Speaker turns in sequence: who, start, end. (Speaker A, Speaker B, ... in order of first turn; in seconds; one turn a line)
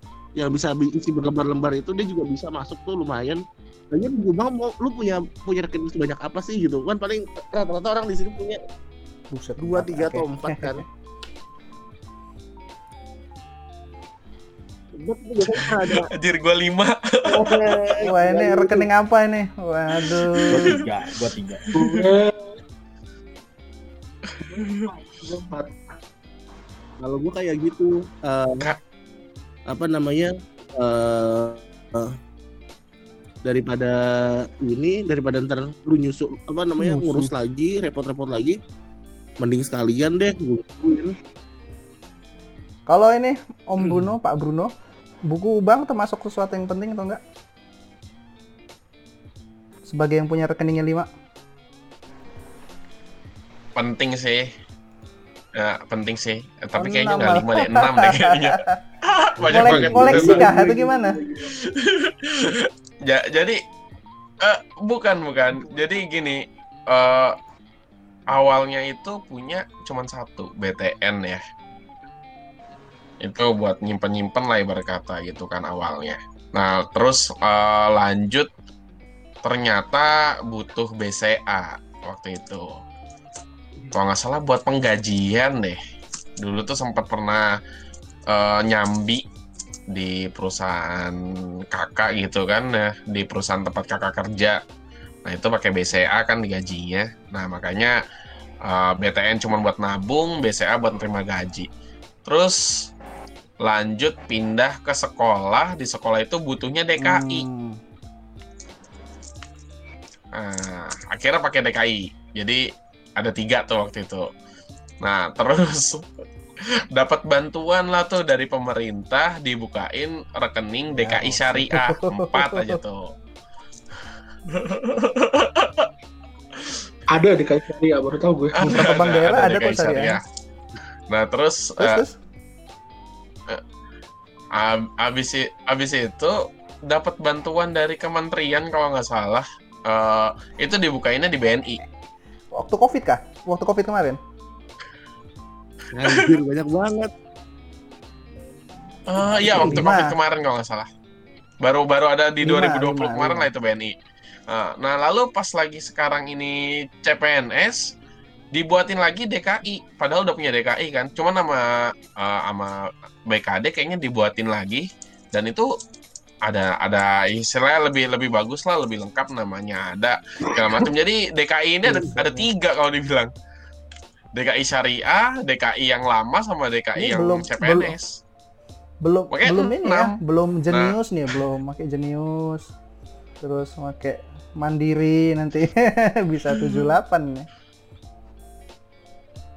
Speaker A: 0.4-8.6
Speaker B: 9.3-10.8
Speaker A: 9.6-10.8
Speaker A: 15.0-16.1
Speaker C: 15.5-18.0
Speaker A: 17.2-18.9
Speaker B: 18.0-20.8
Speaker C: 19.9-20.8
Speaker D: 20.5-21.7
Speaker C: 21.7-22.1
Speaker E: 21.7-22.4
Speaker C: 24.3-24.8
Speaker E: 24.4-25.8
Speaker A: 27.0-28.7
Speaker A: 29.7-32.1
Speaker A: 33.4-38.6
Speaker B: 36.8-37.3
Speaker A: 39.4-41.1
Speaker B: 42.9-44.7
Speaker B: 45.3-47.2
Speaker B: 49.9-51.1
Speaker C: 53.7-54.5
Speaker C: 55.5-60.5
Speaker B: 56.7-58.8
Speaker D: 59.4-60.5
Speaker B: 59.5-61.1
Speaker E: 60.5-61.0
Speaker C: 61.4-63.6
Speaker C: 64.4-67.3
Speaker C: 68.3-71.4
Speaker C: 73.2-78.5
Speaker C: 79.4-82.8
Speaker C: 83.9-85.8
Speaker C: 86.4-87.5
Speaker C: 88.3-89.2
Speaker C: 89.9-91.2
Speaker C: 91.7-94.6
Speaker C: 95.2-98.0
Speaker C: 98.6-101.7
Speaker C: 102.2-102.6
Speaker C: 103.6-107.4
Speaker B: 107.0-107.8
Speaker C: 110.3-112.6
Speaker C: 113.2-114.3
Speaker C: 115.0-116.0
Speaker C: 116.9-123.1
Speaker B: 120.9-122.8
Speaker C: 124.5-125.9
Speaker C: 126.5-126.8
Speaker E: 127.1-128.8
Speaker C: 128.6-130.2
Speaker B: 128.6-130.2
Speaker C: 131.1-132.0
Speaker B: 131.8-132.2
Speaker C: 134.5-141.8
Speaker B: 142.5-144.2
Speaker A: 145.9-147.1
Speaker C: 149.1-150.9
Speaker B: 149.4-150.1
Speaker C: 151.6-153.9
Speaker B: 152.4-153.5
Speaker C: 154.5-157.9
Speaker C: 158.5-165.7
Speaker C: 166.5-173.3
Speaker B: 171.9-172.5
Speaker C: 174.3-178.1
Speaker B: 177.0-177.9
Speaker B: 179.0-182.7
Speaker C: 179.3-180.1
Speaker C: 180.7-181.0
Speaker B: 183.4-187.5
Speaker C: 186.5-186.8